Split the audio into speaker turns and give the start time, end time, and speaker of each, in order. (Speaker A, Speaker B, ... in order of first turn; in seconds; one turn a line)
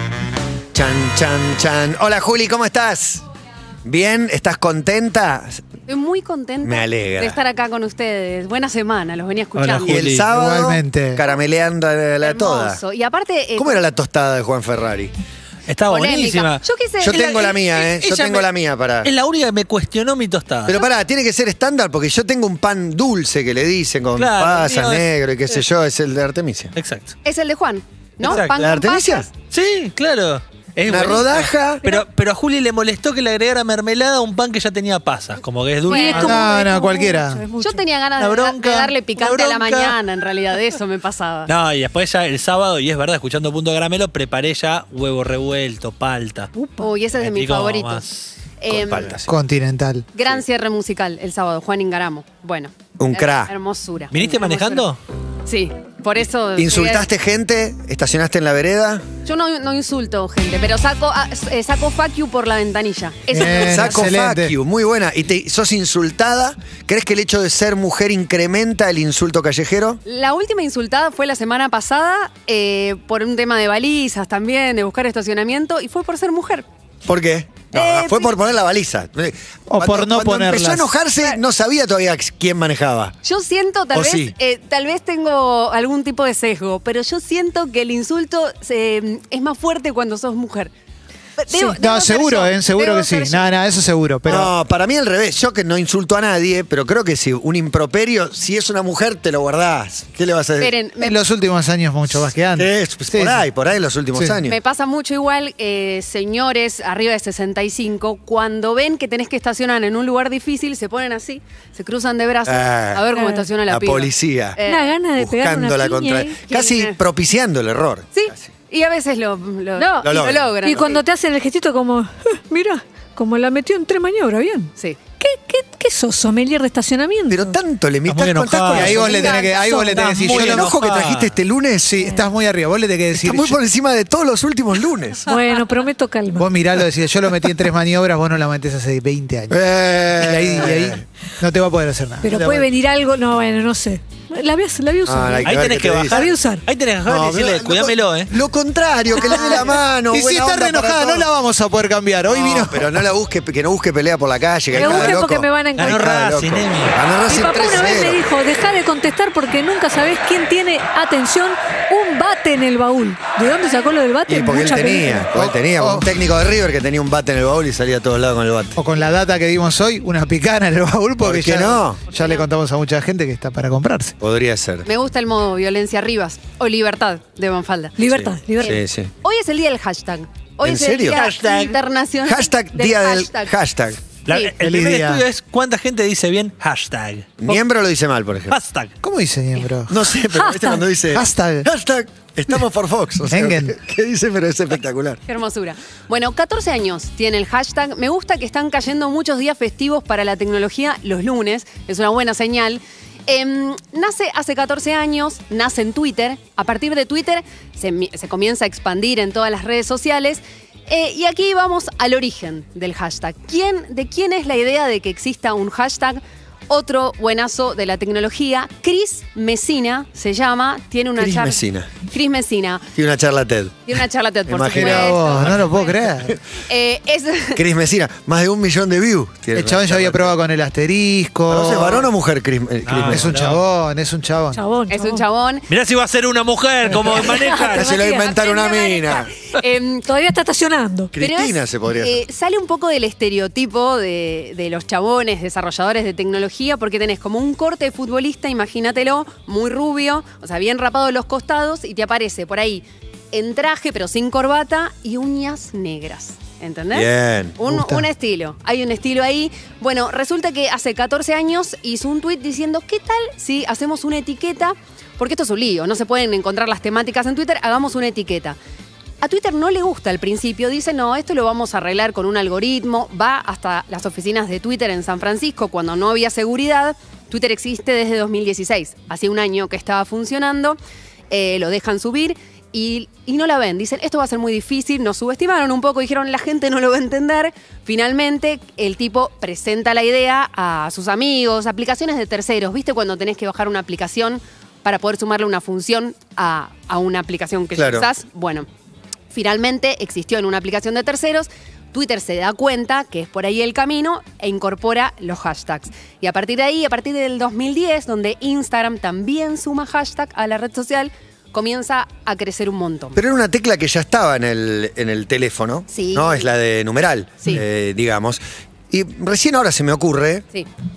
Speaker A: 0.7-3.2
Speaker A: 3.8-5.6
Speaker B: 5.9-9.9
Speaker A: 6.6-7.4
Speaker C: 9.6-10.3
Speaker A: 9.8-12.8
Speaker D: 10.3-11.2
Speaker B: 12.2-13.8
Speaker A: 13.6-15.1
Speaker C: 15.7-18.5
Speaker B: 15.9-17.6
Speaker A: 17.0-19.1
Speaker C: 19.0-20.7
Speaker A: 20.7-26.7
Speaker C: 24.1-25.1
Speaker C: 26.8-27.1
Speaker B: 27.2-29.3
Speaker C: 28.2-28.6
Speaker A: 28.2-29.3
Speaker C: 29.5-36.5
Speaker A: 30.9-32.0
Speaker B: 35.9-36.4
Speaker E: 35.9-37.8
Speaker D: 36.1-37.4
Speaker B: 37.6-41.5
Speaker C: 38.2-40.0
Speaker C: 41.5-46.5
Speaker E: 46.5-46.9
Speaker B: 46.8-48.0
Speaker C: 47.2-48.4
Speaker B: 48.6-49.1
Speaker A: 48.7-49.3
Speaker D: 49.3-50.0
Speaker B: 50.1-54.9
Speaker A: 53.0-53.5
Speaker C: 54.1-55.0
Speaker B: 55.5-57.0
Speaker A: 56.6-59.0
Speaker B: 59.2-64.0
Speaker D: 63.3-64.5
Speaker A: 63.4-70.0
Speaker B: 70.0-76.6
Speaker A: 77.0-83.1
Speaker B: 77.7-78.3
Speaker D: 79.7-80.9
Speaker B: 83.2-90.7
Speaker A: 83.9-84.3
Speaker B: 91.4-93.5
Speaker D: 91.7-94.5
Speaker A: 94.3-100.7
Speaker B: 100.6-101.2
Speaker D: 101.0-103.5
Speaker A: 102.2-104.6
Speaker D: 104.1-104.4
Speaker B: 104.5-115.0
Speaker A: 112.5-113.0
Speaker E: 113.1-113.4
Speaker A: 113.7-114.6
Speaker E: 114.6-116.4
Speaker A: 115.2-118.5
Speaker B: 116.5-117.0
Speaker B: 118.1-121.0
Speaker E: 119.8-127.5
Speaker A: 120.0-120.5
Speaker A: 127.3-129.5
Speaker C: 128.1-129.1
Speaker D: 128.7-130.7
Speaker E: 129.1-130.1
Speaker B: 129.2-129.7
Speaker C: 129.8-131.3
Speaker A: 130.2-132.1
Speaker D: 131.8-133.6
Speaker A: 133.1-135.3
Speaker E: 135.3-136.5
Speaker D: 136.4-142.7
Speaker A: 139.5-141.0
Speaker E: 142.2-146.6
Speaker A: 145.1-146.3
Speaker C: 145.4-148.3
Speaker A: 147.1-151.3
Speaker E: 149.2-149.7
Speaker D: 150.1-153.0
Speaker A: 152.3-158.2
Speaker D: 154.7-155.2
Speaker E: 154.8-156.0
Speaker C: 155.8-156.9
Speaker E: 157.2-165.3
Speaker A: 164.3-168.8
Speaker D: 165.3-166.1
Speaker D: 168.8-174.1
Speaker A: 171.2-172.0
Speaker B: 172.2-172.4
Speaker A: 174.2-174.9
Speaker B: 174.8-178.0
Speaker E: 178.0-178.8
Speaker A: 178.0-179.1
Speaker B: 178.5-183.5
Speaker A: 180.6-181.2
Speaker C: 181.1-181.8
Speaker A: 182.2-184.0
Speaker C: 184.2-187.6
Speaker D: 184.5-185.2
Speaker A: 187.4-188.6
Speaker C: 188.5-188.9
Speaker D: 189.0-190.1
Speaker A: 189.9-195.2
Speaker E: 190.3-190.8
Speaker D: 191.1-191.7
Speaker D: 193.3-193.8
Speaker B: 195.3-222.9
Speaker A: 221.2-221.9
Speaker A: 222.9-223.9
Speaker B: 223.9-225.5
Speaker A: 224.5-225.5
Speaker D: 224.7-226.4
Speaker B: 226.6-227.6
Speaker A: 227.6-230.3
Speaker D: 229.5-232.1
Speaker A: 231.5-233.3
Speaker C: 232.8-233.6
Speaker D: 233.1-234.6
Speaker E: 234.5-235.2
Speaker B: 234.9-235.7
Speaker C: 235.7-237.9
Speaker E: 237.1-238.3
Speaker A: 237.7-239.3
Speaker B: 238.2-240.1
Speaker E: 240.1-241.1
Speaker A: 241.1-242.2
Speaker B: 241.2-268.6
Speaker A: 256.9-257.6
Speaker D: 257.7-258.1
Speaker B: 269.2-280.8
Speaker B: 281.3-298.7
Speaker A: 297.8-298.1
Speaker B: 299.3-313.2
Speaker A: 313.1-320.4
Speaker B: 315.9-316.4